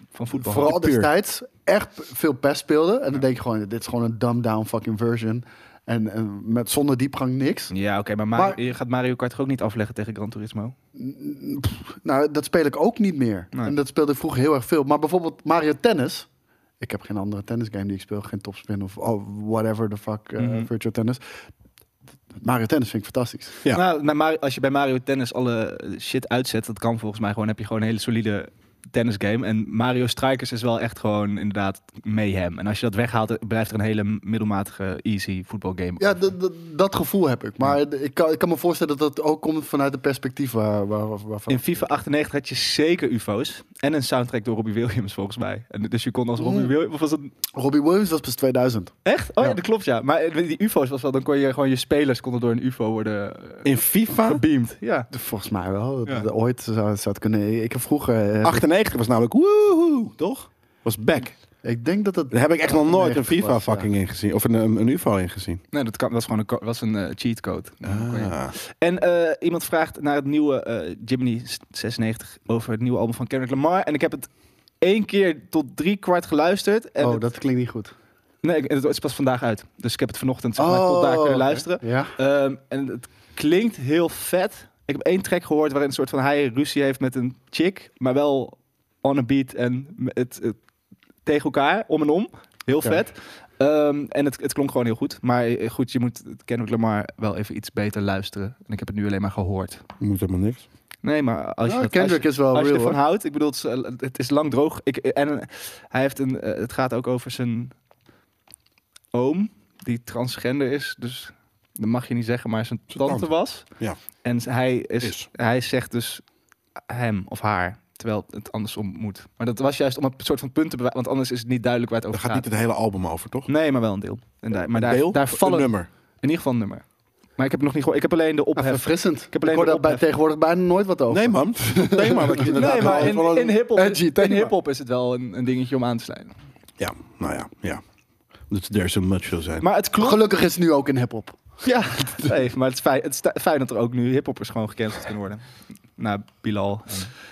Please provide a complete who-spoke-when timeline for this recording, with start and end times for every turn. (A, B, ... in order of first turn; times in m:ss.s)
0:00.1-0:00.7 A
0:00.3-0:07.7 B
0:00.6-0:01.1 C
0:07.7-0:10.7 A
0:08.3-0:08.6 B
0:11.0-0:16.3 B
0:16.8-0:21.2 B
0:20.4-0:20.7 A
0:22.4-0:23.6 B
0:23.7-0:36.2 A
0:36.0-0:41.9 B
0:41.5-0:47.3 A
0:46.4-0:46.7 B
0:47.5-0:49.6 B
0:49.0-0:55.1 A
0:53.6-0:54.4 C
0:55.1-0:58.6 B
0:58.4-1:01.4 C
1:01.6-1:03.9 B
1:02.3-1:05.6 C
1:05.7-1:14.3 A
1:07.8-1:08.5 C
1:14.8-1:17.2 A
1:17.0-1:17.9 B
1:18.4-1:30.6 A
1:20.6-1:22.1 B
1:31.2-1:39.8 A
1:40.0-1:40.6 C
1:41.0-1:47.7 A
1:41.6-1:43.0 B
1:49.1-1:53.6 A
1:52.9-1:54.0 C
1:54.2-1:56.2 A
1:55.0-1:55.3 C
1:56.9-2:02.5 A
2:02.1-2:03.5 C
2:03.5-2:06.8 A
2:04.7-2:05.9 C
2:07.4-2:10.0 A
2:08.6-2:14.5 B
2:11.1-2:13.5 C
2:12.4-2:16.3 A
2:16.8-2:17.8 C
2:18.5-2:19.6 C
2:19.6-2:20.2 A
2:20.0-2:21.4 B
2:21.6-2:25.4 A
2:26.0-2:27.1 A